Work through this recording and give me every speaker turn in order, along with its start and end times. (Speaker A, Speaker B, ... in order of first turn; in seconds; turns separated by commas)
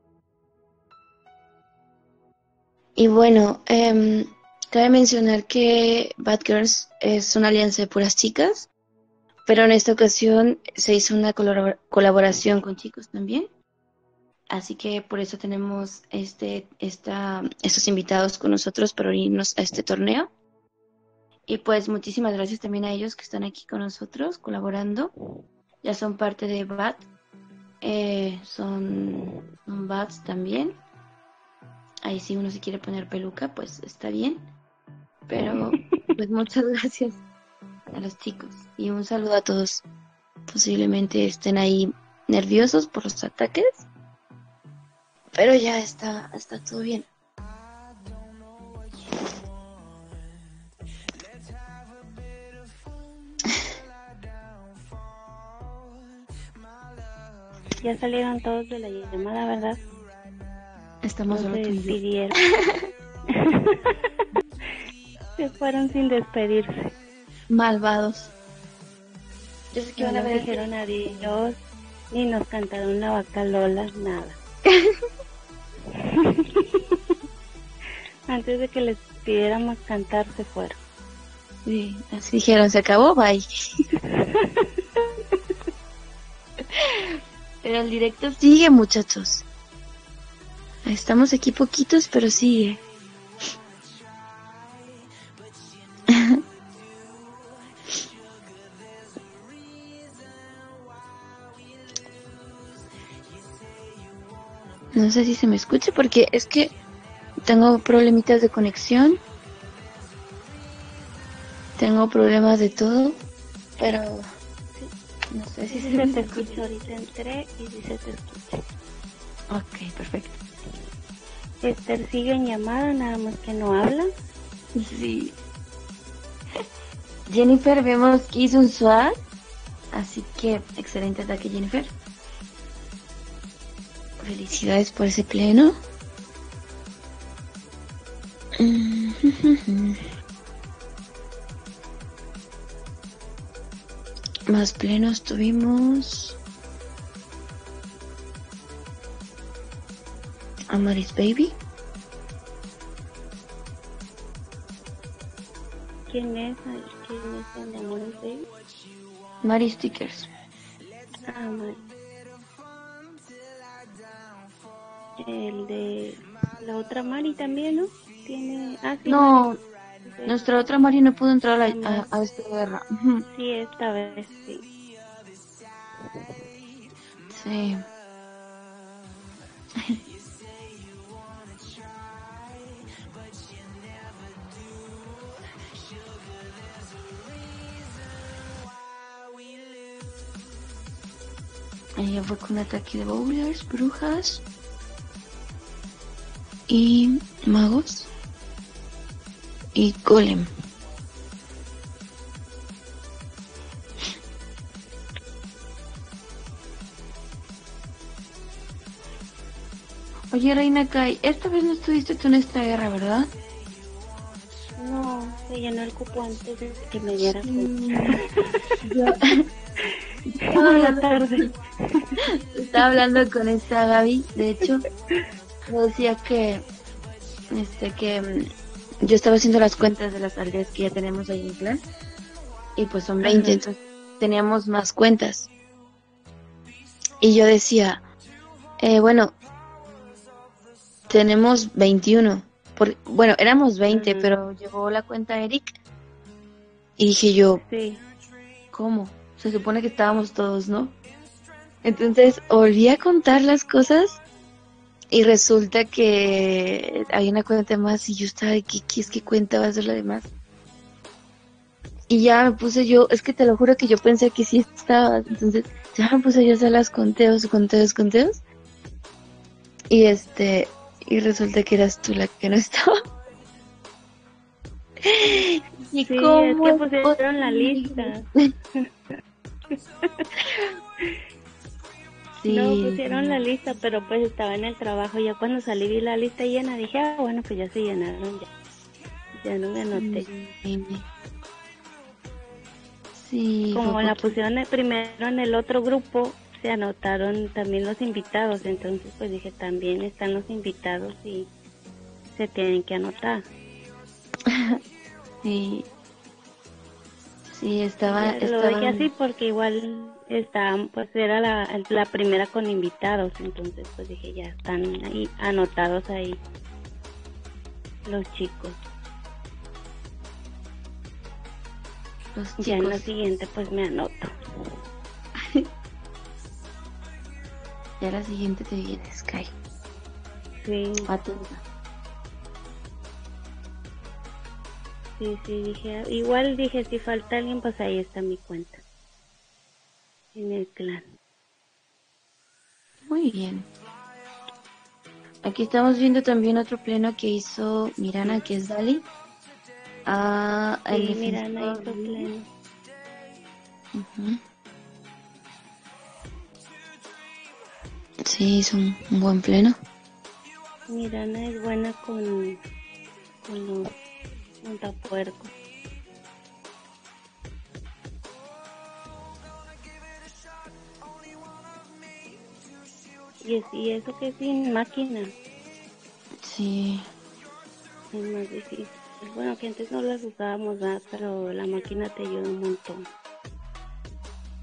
Speaker A: 3.0-8.7, Speaker A: 9.5-13.5, Speaker A: 14.5-20.3, Speaker A: 21.5-25.1, Speaker A: 25.8-27.0, Speaker A: 27.8-30.8, Speaker A: 32.0-34.5, Speaker A: 35.3-37.2, Speaker B: 35.4-35.7, Speaker A: 37.9-39.8, Speaker A: 40.5-43.8, Speaker A: 45.3-47.1, Speaker B: 57.8-59.8, Speaker A: 61.0-62.0, Speaker B: 61.3-62.4, Speaker B: 63.3-63.6, Speaker B: 65.3-66.9, Speaker A: 67.5-68.3, Speaker A: 69.7-71.3, Speaker B: 70.0-71.5, Speaker B: 72.1-74.4, Speaker A: 74.7-74.9, Speaker B: 76.0-76.8, Speaker B: 78.3-80.8, Speaker A: 81.6-83.5, Speaker B: 84.1-85.0, Speaker A: 86.8-89.4, Speaker A: 90.8-92.8, Speaker A: 96.1-96.4, Speaker A: 104.9-106.7, Speaker A: 107.4-109.2, Speaker A: 111.8-113.2, Speaker A: 113.8-114.2, Speaker A: 115.3-116.6, Speaker B: 115.7-118.6, Speaker A: 119.5-120.4, Speaker B: 121.6-124.1, Speaker A: 124.7-125.4, Speaker A: 127.3-129.2, Speaker A: 129.9-131.9, Speaker A: 134.2-135.8, Speaker A: 138.6-140.0, Speaker A: 144.5-146.4, Speaker A: 150.7-151.6, Speaker B: 156.1-158.5, Speaker A: 159.4-160.3, Speaker B: 161.2-161.8, Speaker B: 165.2-169.4, Speaker A: 169.0-169.6, Speaker B: 170.1-170.3, Speaker A: 170.2-173.2, Speaker B: 171.7-172.0, Speaker B: 173.3-174.6, Speaker A: 177.3-177.8, Speaker A: 192.0-194.4, Speaker A: 196.7-198.1, Speaker A: 199.7-200.5, Speaker A: 210.3-213.3, Speaker B: 214.8-217.7, Speaker A: 217.2-218.2, Speaker A: 218.8-219.3, Speaker A: 220.4-221.4, Speaker B: 220.5-221.5, Speaker A: 222.5-224.8, Speaker A: 225.7-226.7, Speaker A: 227.5-228.5, Speaker A: 229.0-231.8, Speaker A: 232.8-235.5, Speaker B: 233.2-233.6, Speaker A: 237.2-238.0, Speaker A: 238.8-239.3, Speaker A: 241.1-245.7, Speaker B: 243.9-244.3, Speaker A: 247.0-247.6, Speaker B: 247.6-248.0, Speaker A: 248.7-250.9, Speaker A: 251.8-254.2, Speaker A: 255.1-260.3, Speaker A: 262.1-268.4, Speaker A: 269.9-272.9, Speaker A: 275.0-278.5, Speaker B: 276.1-278.2, Speaker A: 282.4-283.5, Speaker B: 282.5-288.5, Speaker B: 289.3-290.3, Speaker A: 289.9-291.0, Speaker A: 293.1-294.3, Speaker B: 293.7-301.5, Speaker B: 302.4-303.4, Speaker A: 304.5-304.8, Speaker A: 305.4-305.9, Speaker A: 307.5-309.1, Speaker B: 308.0-316.4, Speaker B: 318.1-318.8, Speaker A: 322.3-323.1, Speaker B: 322.6-324.3, Speaker A: 325.4-325.6, Speaker A: 328.0-329.5, Speaker B: 330.6-331.1, Speaker A: 331.1-331.6, Speaker B: 335.2-338.8, Speaker B: 340.3-341.0, Speaker A: 343.1-343.7, Speaker A: 345.4-349.1, Speaker A: 350.0-352.3, Speaker B: 350.9-352.4, Speaker A: 353.9-354.4, Speaker A: 358.2-359.8, Speaker B: 360.9-362.6, Speaker B: 363.4-363.9, Speaker B: 364.6-365.5, Speaker B: 373.4-375.3, Speaker A: 376.4-377.0, Speaker B: 378.1-383.0